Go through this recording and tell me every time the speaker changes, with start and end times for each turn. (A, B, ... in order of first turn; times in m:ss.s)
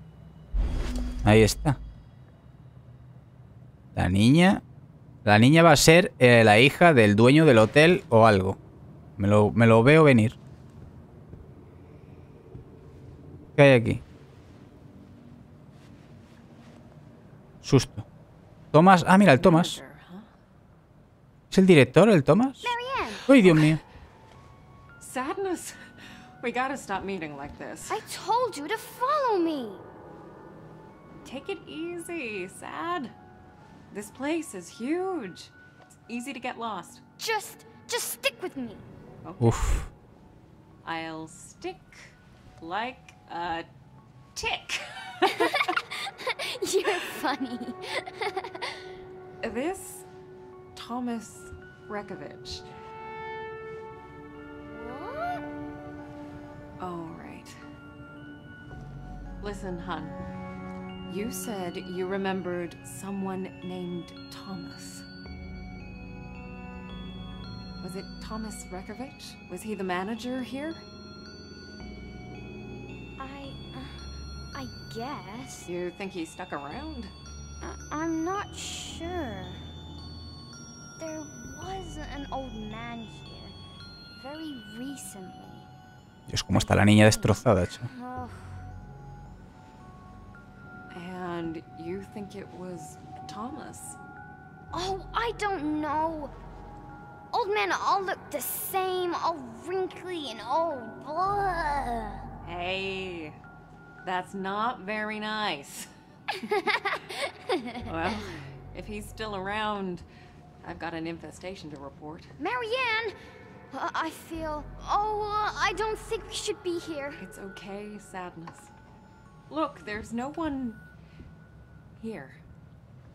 0:01.2-0:01.8 A
0:03.9-0:04.6 A
0:05.2-0:08.6 A
0:09.2-0:10.4 A
0:13.6-0:14.0 A
0:17.6-0:18.0 A
0:18.7-0:19.8 A
0:19.4-0:20.3 B
0:21.5-0:22.7 A
0:22.6-0:23.2 C
0:23.3-0:23.8 A
0:23.4-0:23.8 B
0:25.0-0:28.0 B
0:27.9-0:29.8 C
0:31.2-0:33.1 B
0:33.9-0:37.0 B
0:37.2-0:38.8 C
0:39.2-0:39.8 B
0:39.4-0:39.9 A
0:40.8-0:43.6 B
0:44.3-0:45.7 B
0:45.2-0:45.7 C
0:46.4-0:48.6 C
0:46.8-0:47.1 B
0:49.4-0:50.1 B
0:50.7-0:52.7 B
0:54.7-0:55.4 C
0:56.8-0:57.6 B
0:59.4-1:00.2 B
1:01.1-1:05.0 B
1:07.8-1:10.8 B
1:13.2-1:15.7 C
1:15.6-1:17.1 B
1:17.6-1:19.6 C
1:21.0-1:23.5 C
1:24.1-1:25.7 C
1:26.3-1:27.9 A
1:26.5-1:28.6 C
1:30.9-1:34.0 B
1:34.7-1:36.3 C
1:37.3-1:42.2 C
1:42.4-1:43.4 B
1:44.0-1:45.9 B
1:46.4-1:48.2 C
1:47.8-1:50.0 B
1:50.6-1:52.3 B
1:52.4-1:53.1 C
1:53.7-1:57.2 C
1:57.2-1:58.7 B
1:59.5-2:00.8 B
2:02.0-2:02.4 B